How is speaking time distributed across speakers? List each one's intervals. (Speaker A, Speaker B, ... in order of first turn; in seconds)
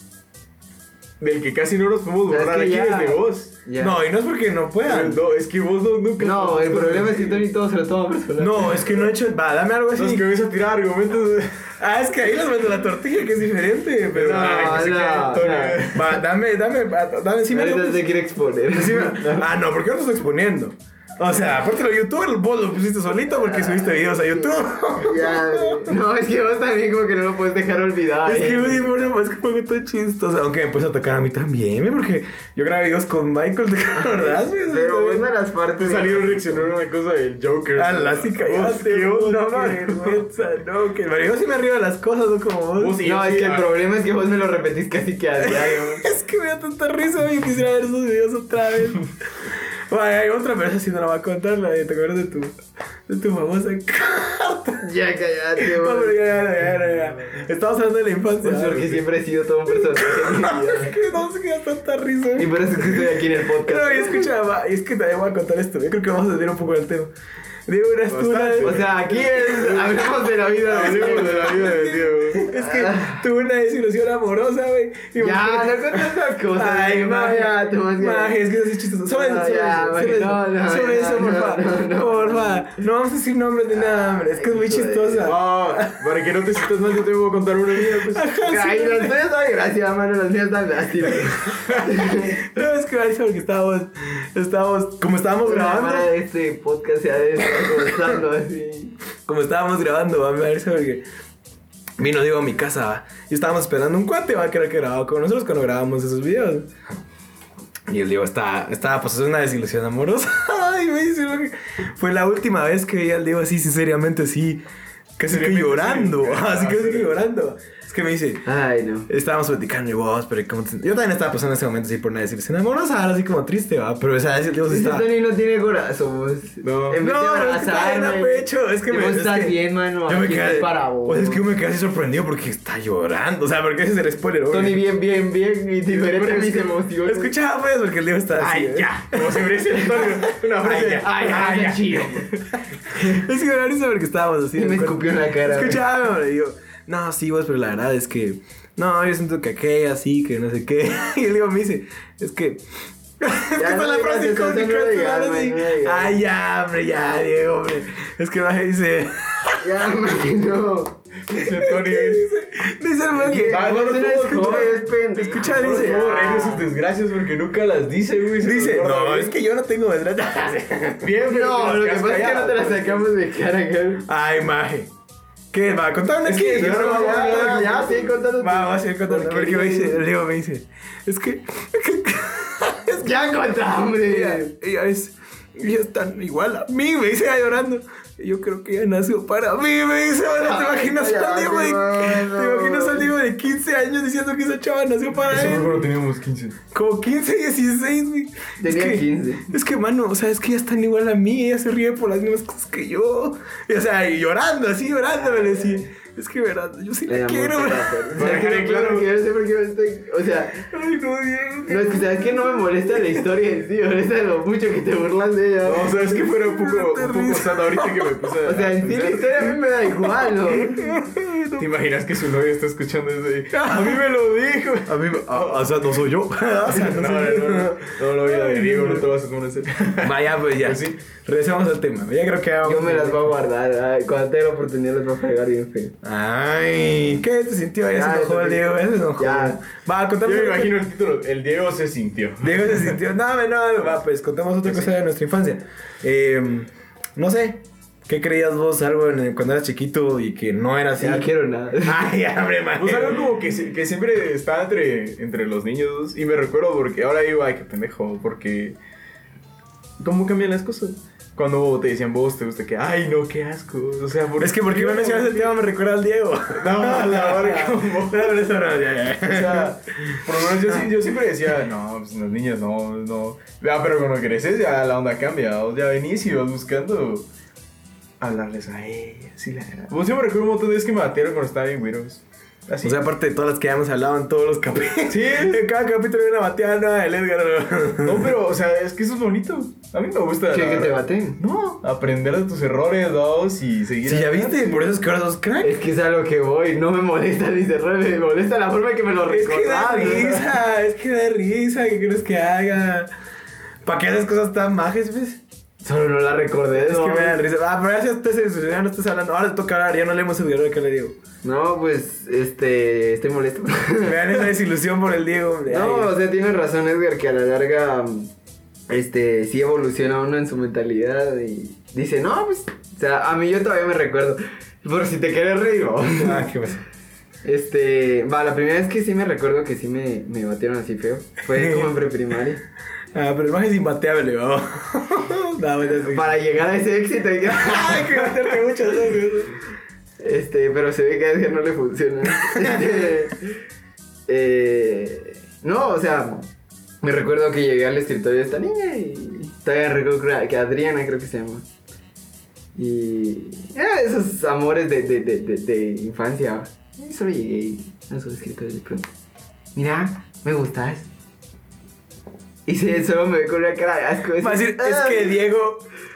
Speaker A: 1.2-3.5, 4.8-7.5, 9.9-11.8, 14.1-16.2, 35.8-40.2, 42.8-43.8, 58.7-59.0, 68.1-72.5, 85.2-88.2, 115.3-117.1, 126.6-127.0, 135.9-136.8, 138.4-142.4, 161.3-162.2, 163.4-164.8, 165.4-169.4, 171.0-173.1, 176.2-178.1, 195.2-196.6, 208.2-209.1, 215.6-219.5, 221.6-225.9, 226.7-231.0, 240.2-243.0, 244.6-244.9, 252.8-258.8, 260.0-265.6, 266.5-268.4, 269.2-277.3, 278.2-283.1, 285.1-285.6, 288.0-294.9, 338.3-339.3
Speaker B: 2.3-4.0, 6.2-9.0, 14.4-15.8, 17.5-19.5, 23.4-28.9, 33.9-36.6, 43.0-46.1, 54.8-56.2, 58.4-61.0, 62.4-64.3, 68.6-71.8, 72.4-73.2, 75.2-78.3, 79.1-82.8, 83.7-85.3, 88.4-92.4, 95.4-99.0, 118.4-119.1, 124.7-131.4, 134.5-137.3, 140.6-142.3, 144.5-145.8, 153.6-156.2, 159.6-160.9, 163.2-166.7, 171.3-174.0, 176.6-180.0, 183.0-184.5, 190.4-193.1, 198.6-199.4, 205.2-205.8, 207.1-210.7, 211.7-216.0, 218.4-220.9, 232.6-235.9, 237.9-239.6, 251.0-252.1, 290.5-291.4, 295.6-300.5, 305.8-307.4, 311.4-314.5, 315.7-318.3, 318.9-326.5, 327.4-332.6, 336.0-338.2, 340.2-343.6, 344.3-346.5, 347.0-351.7, 352.8-359.1, 359.7-361.1, 362.6-365.4
Speaker C: 3.8-5.2, 8.4-10.2, 11.8-14.9, 15.9-18.0, 18.7-26.0, 28.2-35.3, 37.8-43.0, 45.4-52.5, 53.1-54.9, 55.6-58.9, 59.7-67.1, 67.7-68.8, 70.8-86.0, 87.9-89.1, 92.2-96.1, 97.6-97.9, 99.2-101.0, 102.0-106.7, 107.9-114.6, 115.2-118.4, 119.1-125.0, 127.0-134.8, 137.0-142.2, 142.9-152.6, 153.2-159.8, 161.3-166.0, 168.4-171.1, 174.1-174.9, 175.5-183.2, 184.0-195.8, 196.7-208.4, 210.7-213.2, 216.0-218.3, 220.0-221.7, 223.5-224.1, 224.9-229.1, 230.0-233.3, 236.0-240.8, 242.4-251.3, 251.8-253.3, 264.4-270.9, 282.8-288.4, 294.0-295.8, 299.3-303.1, 303.9-305.4, 306.7-311.1, 314.0-316.1, 326.2-326.8, 331.5-332.0, 333.1-336.4, 337.4-339.6, 342.3-343.1, 364.4-365.9